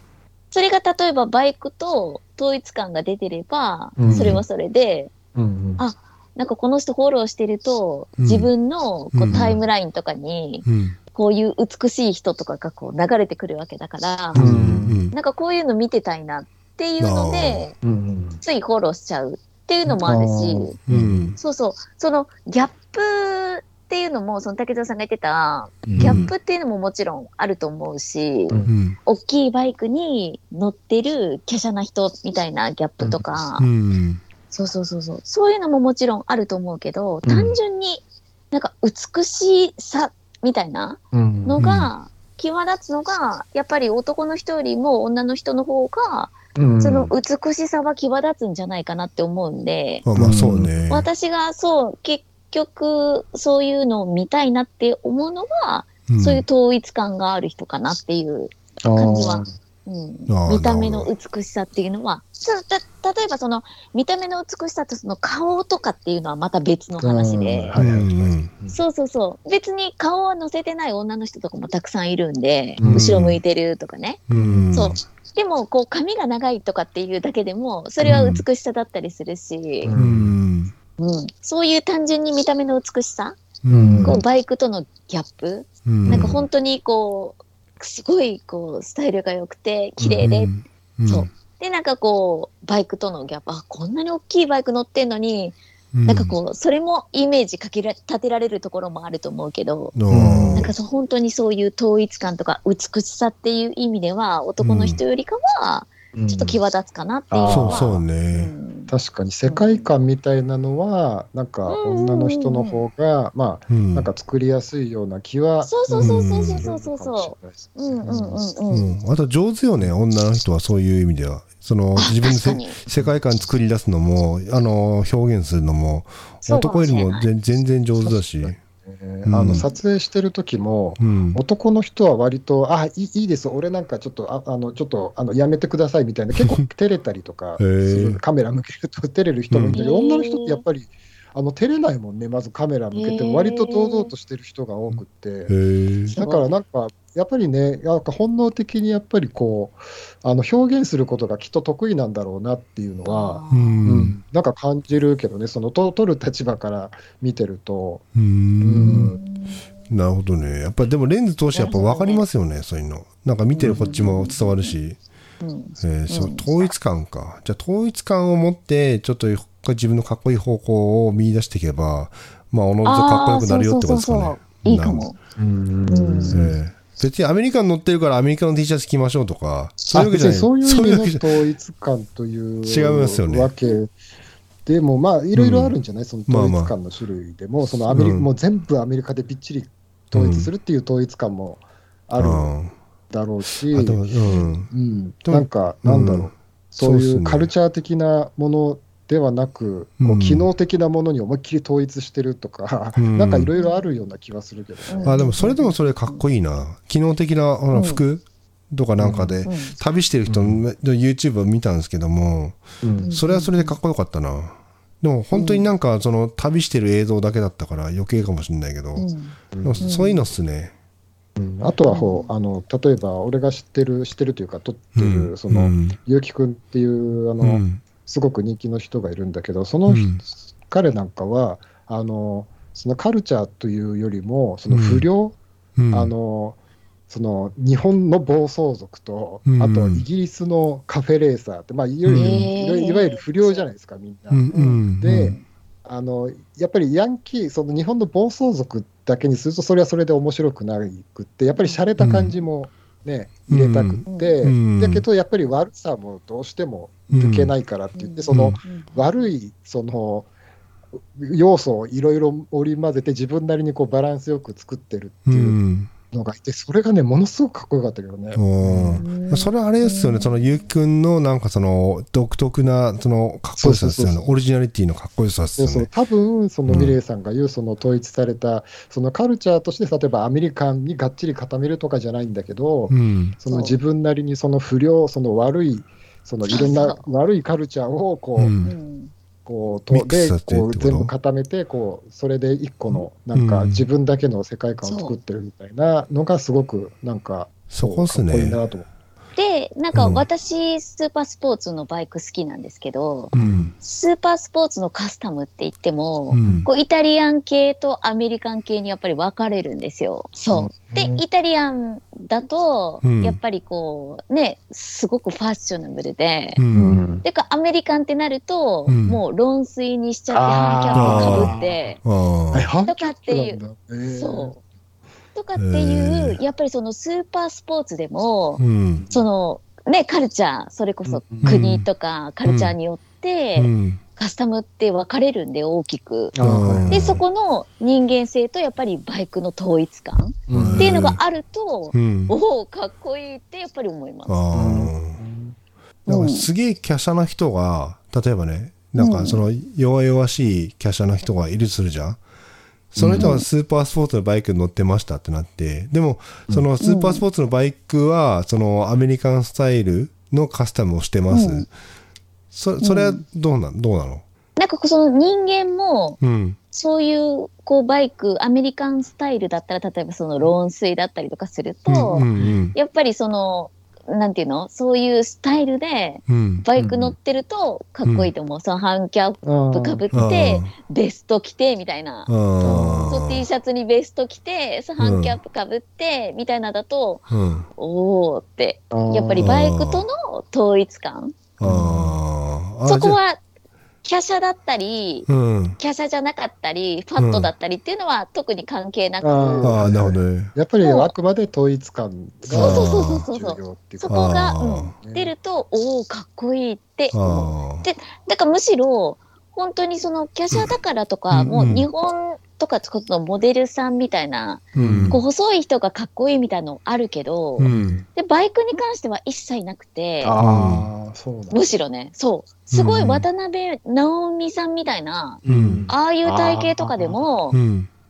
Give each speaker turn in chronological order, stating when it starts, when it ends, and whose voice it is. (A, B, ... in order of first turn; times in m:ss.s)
0:00.5-0:05.1 A
0:04.0-0:04.4 B
0:04.0-0:04.4 C
0:05.4-0:05.8 B
0:05.8-0:17.8 A
0:08.2-0:08.5 C
0:09.1-0:09.6 C
0:09.3-0:09.6 B
0:10.7-0:11.0 C
0:14.4-0:15.0 B
0:14.4-0:15.1 C
0:17.0-0:17.7 C
0:17.8-0:18.4 B
0:18.4-0:20.8 A
0:19.9-0:21.4 B
0:20.9-0:21.4 C
0:21.4-0:33.7 A
0:25.9-0:26.3 B
0:26.0-0:26.3 C
0:28.7-0:29.0 C
0:33.0-0:33.3 B
0:33.6-0:34.2 C
0:34.5-0:50.1 A
0:37.2-0:37.6 B
0:41.1-0:41.9 B
0:46.6-0:47.1 B
0:50.0-0:51.1 C
0:50.2-0:50.7 B
0:50.9-1:07.8 A
0:56.1-0:56.4 C
0:58.8-0:59.5 B
1:00.3-1:01.1 C
1:07.0-1:08.8 B
1:07.8-1:08.5 C
1:08.7-1:19.9 A
1:12.8-1:13.1 B
1:12.8-1:13.4 C
1:14.3-1:15.0 C
1:14.3-1:14.7 B
1:18.0-1:18.3 B
1:18.0-1:18.4 C
1:19.8-1:20.4 B
1:19.9-1:20.7 C
1:21.0-1:23.4 A
1:23.6-1:24.2 C
1:23.7-1:24.2 B
1:24.0-1:40.0 A
1:25.8-1:26.4 C
1:26.0-1:26.4 B
1:30.0-1:30.3 B
1:30.2-1:31.3 C
1:35.9-1:36.3 C
1:40.0-1:40.7 C
1:40.1-1:40.7 B
1:40.5-1:48.9 A
1:44.6-1:45.0 C
1:46.1-1:46.6 B
1:47.3-1:48.0 B
1:47.5-1:48.5 C
1:48.9-1:58.4 B
1:49.5-1:49.9 A
1:51.7-1:52.8 A
1:53.7-1:54.1 C
1:55.6-1:58.9 A
1:56.0-1:56.7 C
1:58.7-2:08.6 C
2:02.0-2:02.8 A
2:02.9-2:03.2 B
2:06.5-2:07.3 A
2:08.0-2:25.5 B
2:09.2-2:09.6 C
2:09.5-2:09.8 A
2:11.0-2:11.4 C
2:17.6-2:18.2 C
2:19.5-2:19.8 C
2:19.8-2:20.6 A
2:22.9-2:24.1 A
2:24.9-2:26.2 C
2:26.1-2:26.5 A
2:26.2-2:38.0 B
2:33.1-2:33.8 A
2:33.5-2:34.2 C
2:38.1-2:39.1 C
2:38.6-2:39.2 B
2:38.8-2:39.7 A
2:39.9-2:45.0 C
2:41.5-2:42.2 A
2:43.5-2:44.7 A
2:45.4-2:46.6 A
2:45.8-2:55.1 C
2:52.8-2:55.2 A
2:55.4-2:56.6 B
2:55.9-2:56.5 A
2:56.3-3:01.2 C
2:59.9-3:03.9 B
3:02.6-3:03.5 C
3:04.7-3:12.5 B
3:05.3-3:05.8 C
3:06.3-3:06.8 C
3:07.6-3:08.3 C
3:10.1-3:10.5 C
3:12.2-3:12.7 C
3:13.1-3:25.3 B
3:13.7-3:14.7 C
3:14.2-3:14.5 A
3:15.3-3:17.5 C
3:20.0-3:20.5 C
3:23.0-3:23.5 C
3:23.5-3:23.8 A
3:24.9-3:26.2 A
3:25.0-3:39.1 C
3:27.7-3:28.0 A
3:29.0-3:29.4 B
3:29.5-3:29.8 A
3:30.3-3:30.6 B
3:32.8-3:33.1 B
3:33.0-3:33.8 A
3:35.3-3:35.7 A
3:39.0-3:40.2 A
3:39.5-3:39.9 B
3:39.6-3:40.7 C
3:41.4-3:55.4 B
3:41.9-3:42.3 A
3:45.0-3:46.0 C
3:47.4-3:47.8 C
3:49.9-3:50.2 C
3:54.7-3:55.1 C
3:55.8-3:56.1 C
3:55.9-3:56.6 B
3:57.1-4:20.3 B
3:59.4-4:00.0 C
4:02.0-4:02.4 C
4:02.2-4:03.7 A
4:04.3-4:05.4 C
4:04.5-4:05.4 A
4:11.6-4:11.8 A
4:12.0-4:12.3 C
4:13.5-4:15.0 C
4:14.1-4:14.4 A
4:17.1-4:17.5 C
4:18.0-4:19.0 A
4:18.3-4:18.6 C
4:21.1-4:25.6 B
4:25.3-4:25.9 C
4:26.1-4:29.1 B
4:28.3-4:35.9 C
4:29.0-4:30.5 A
4:33.6-4:34.4 B
4:35.6-4:48.6 B
4:36.7-4:37.0 C
4:42.9-4:43.4 C
4:43.5-4:43.8 A
4:46.4-4:47.0 A
4:48.4-4:48.7 C
4:48.6-4:49.1 A
4:49.4-4:58.9 B
4:49.9-4:51.1 C
4:52.9-4:53.8 C
4:54.8-4:55.1 A
4:57.7-4:58.6 C
4:59.4-5:16.6 A
4:59.9-5:00.2 C
5:03.3-5:03.7 B
5:03.3-5:03.7 C
5:06.3-5:06.7 C
5:10.5-5:11.2 B
5:13.0-5:13.4 C
5:16.6-5:17.0 C
5:16.7-5:17.2 B
5:17.2-5:22.0 A
5:18.9-5:19.2 C
5:20.3-5:21.8 B
5:21.0-5:22.7 C
5:22.5-5:24.6 B
5:22.9-5:24.6 A
5:25.4-5:36.3 A
5:25.6-5:26.4 C
5:28.6-5:29.0 C
5:29.0-5:29.3 B
5:31.1-5:31.6 B
5:31.4-5:31.9 C
5:32.4-5:32.8 C
5:33.6-5:34.0 C
5:36.4-5:37.2 B
5:36.4-5:37.2 C
5:36.9-5:44.7 A
5:40.5-5:41.0 B
5:40.5-5:41.2 C
5:41.9-5:42.4 C
5:44.3-5:45.2 C
5:44.5-5:45.6 B
5:46.1-5:46.5 A
5:46.1-5:52.2 C
5:49.0-5:49.4 A
5:52.9-6:01.7 C
5:53.0-5:53.4 B
5:53.2-5:53.4 A
5:56.8-5:57.2 A
6:01.3-6:01.7 A
6:02.5-6:04.2 C
6:02.8-6:03.2 A
6:04.6-6:06.2 A
6:06.2-6:06.6 C
6:06.7-6:31.4 A
6:11.9-6:12.8 C
6:16.3-6:16.6 C
6:16.8-6:17.1 B
6:18.0-6:18.3 C
6:19.4-6:20.1 B
6:20.1-6:20.7 C
6:22.3-6:23.4 C
6:22.6-6:23.2 B
6:25.0-6:25.4 C
6:27.3-6:27.7 C
6:28.9-6:29.6 B
6:29.4-6:30.1 C
6:31.6-6:33.2 C
6:31.6-6:32.2 B
6:32.9-6:33.4 A
6:34.0-6:39.8 A
6:35.3-6:35.8 C
6:37.2-6:37.5 C
6:39.2-6:45.3 B
6:39.6-6:40.5 C
6:40.8-6:41.1 A
6:42.5-7:00.4 A
6:42.5-6:43.3 C
6:44.1-6:45.0 C
6:47.1-6:47.9 C
6:51.3-6:51.9 C
6:54.8-6:55.2 B
6:54.8-6:55.2 C
6:57.6-6:58.0 C
6:57.7-6:58.1 B
7:00.2-7:01.6 B
7:00.4-7:00.9 C
7:01.5-7:07.6 A
7:02.7-7:03.3 C
7:05.4-7:07.2 B
7:05.4-7:05.9 C
7:07.5-7:07.9 C